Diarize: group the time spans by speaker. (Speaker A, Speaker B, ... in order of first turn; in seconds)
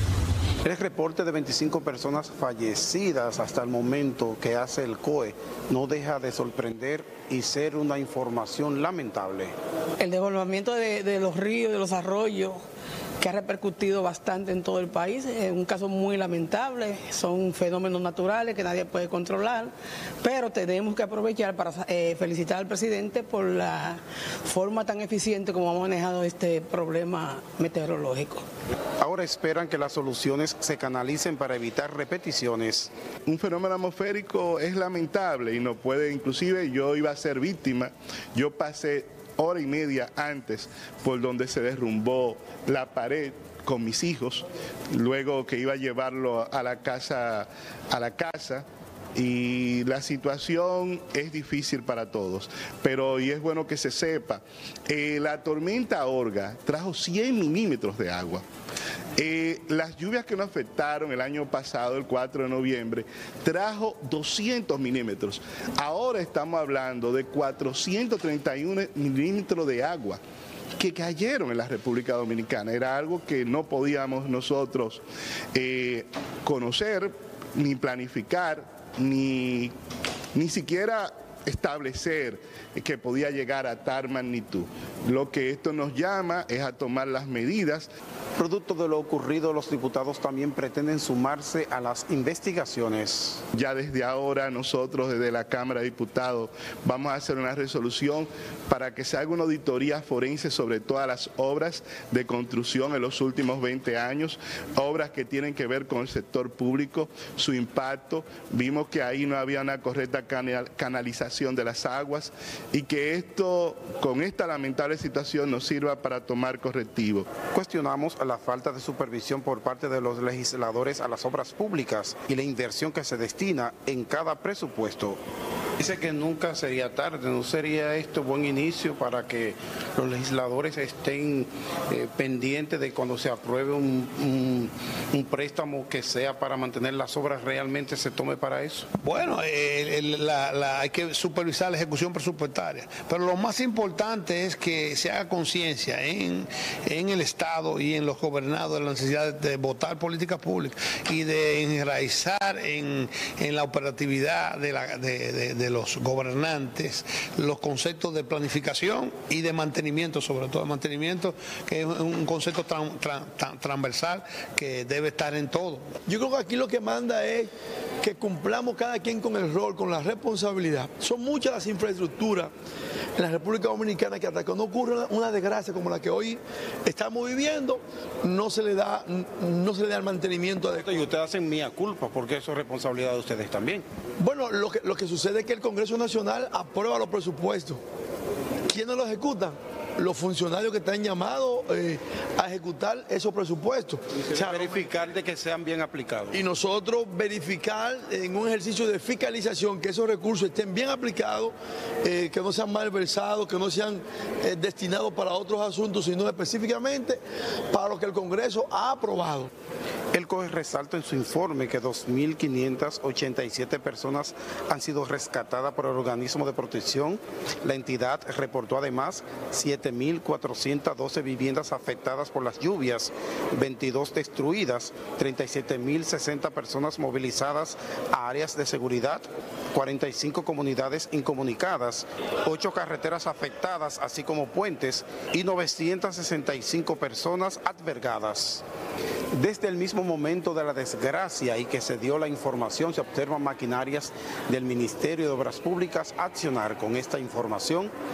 Speaker A: 0.6-9.5, 29.0-32.9, 88.4-93.4, 117.4-125.2, 125.8-138.9, 180.8-183.8, 194.3-196.4, 210.1-238.6, 239.3-247.9
Speaker B: 10.0-12.6, 13.2-28.4
Speaker C: 33.3-58.4, 59.2-70.2, 70.8-75.0, 75.5-79.7, 80.3-87.9, 93.5-117.4
Speaker D: 139.0-165.9
Speaker E: 166.1-172.5, 173.2-180.9, 184.2-187.8, 188.7-194.8, 196.3-209.5